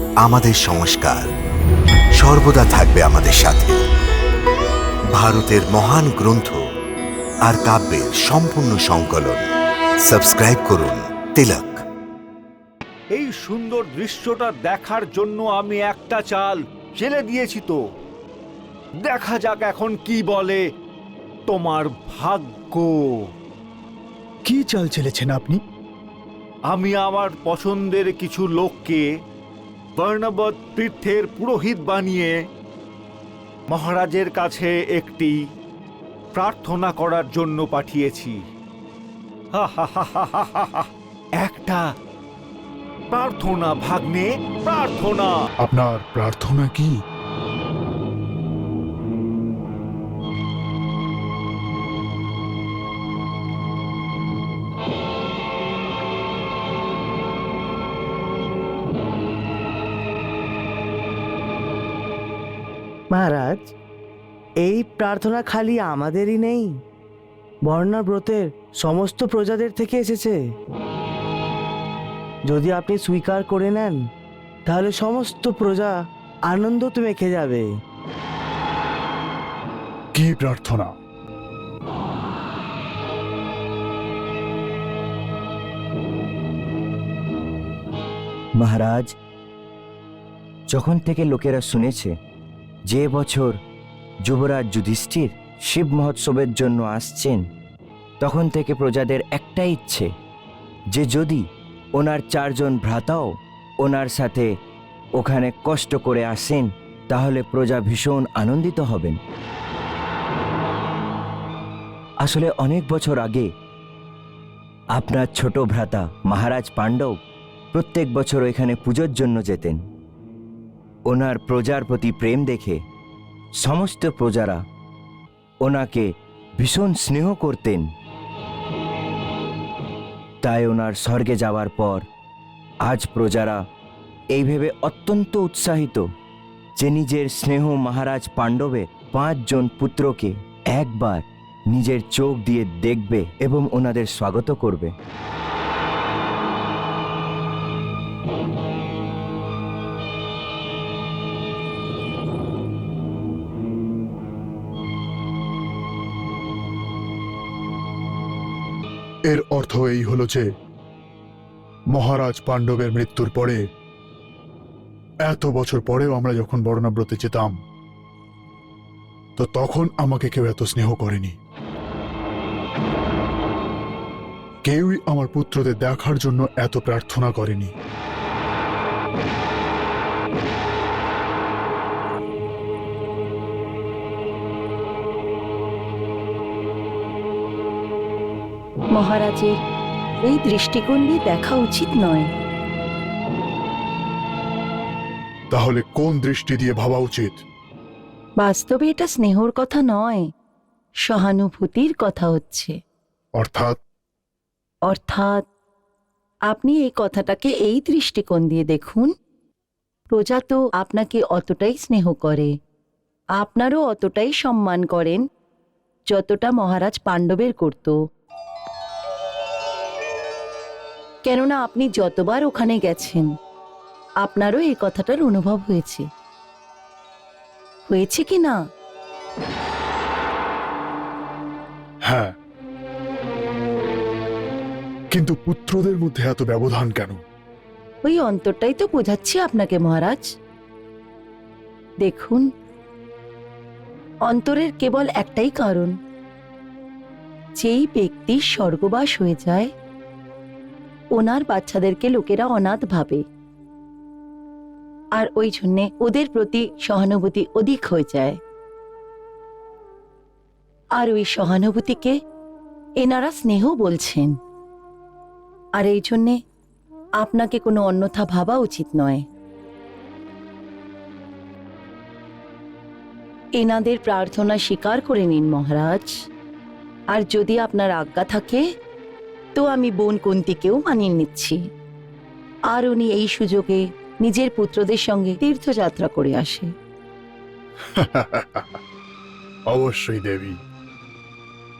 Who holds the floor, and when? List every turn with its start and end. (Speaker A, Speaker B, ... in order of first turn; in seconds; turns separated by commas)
Speaker A: 0.2-1.3, Speaker A: 2.1-3.8, Speaker A: 5.1-6.6, Speaker A: 7.4-9.5, Speaker A: 10.0-11.8, Speaker B: 13.1-17.8, Speaker B: 19.0-20.6, Speaker B: 21.5-23.3, Speaker C: 24.4-25.6, Speaker B: 26.7-29.1, Speaker B: 30.0-32.4, Speaker B: 33.7-35.4, Speaker B: 36.3-38.4, Speaker B: 39.5-41.8, Speaker B: 43.1-45.4, Speaker C: 45.6-46.9, Speaker D: 63.1-63.7, Speaker D: 64.6-66.8, Speaker D: 67.7-70.4, Speaker D: 72.5-74.0, Speaker D: 74.7-75.9, Speaker D: 76.5-77.7, Speaker C: 80.1-80.9, Speaker E: 88.5-89.1, Speaker E: 90.7-92.2, Speaker E: 92.9-93.6, Speaker E: 94.2-97.5, Speaker E: 98.2-100.1, Speaker E: 100.9-104.5, Speaker E: 105.2-109.2, Speaker E: 112.2-113.5, Speaker E: 114.9-117.2, Speaker E: 117.7-119.8, Speaker E: 121.1-122.8, Speaker E: 123.6-124.6, Speaker E: 125.6-127.9, Speaker E: 130.4-132.1, Speaker E: 132.8-133.6, Speaker E: 134.3-136.1, Speaker E: 136.8-144.9, Speaker C: 159.3-160.4, Speaker C: 161.9-163.6, Speaker C: 165.2-167.6, Speaker C: 169.4-171.4, Speaker C: 174.6-177.7, Speaker F: 188.9-189.6, Speaker F: 190.2-192.3, Speaker C: 195.5-197.4, Speaker F: 198.4-200.2, Speaker F: 201.1-202.7, Speaker C: 203.4-203.8, Speaker F: 204.9-205.4, Speaker F: 206.5-209.1, Speaker F: 210.1-212.5, Speaker F: 213.4-215.2, Speaker F: 216.1-218.0, Speaker F: 221.2-223.3, Speaker F: 224.2-226.0, Speaker F: 227.9-228.6, Speaker C: 232.1-232.3, Speaker C: 235.1-237.2, Speaker F: 238.0-240.2, Speaker F: 242.0-242.4, Speaker F: 244.3-245.9, Speaker F: 247.6-249.7, Speaker F: 251.2-253.2, Speaker F: 255.2-258.4, Speaker F: 261.0-262.1, Speaker F: 263.0-264.3, Speaker F: 265.8-266.4, Speaker F: 267.2-269.2, Speaker F: 273.6-276.1, Speaker F: 277.1-278.6, Speaker F: 279.5-281.6, Speaker F: 282.7-286.7, Speaker C: 288.0-288.8, Speaker C: 289.7-290.6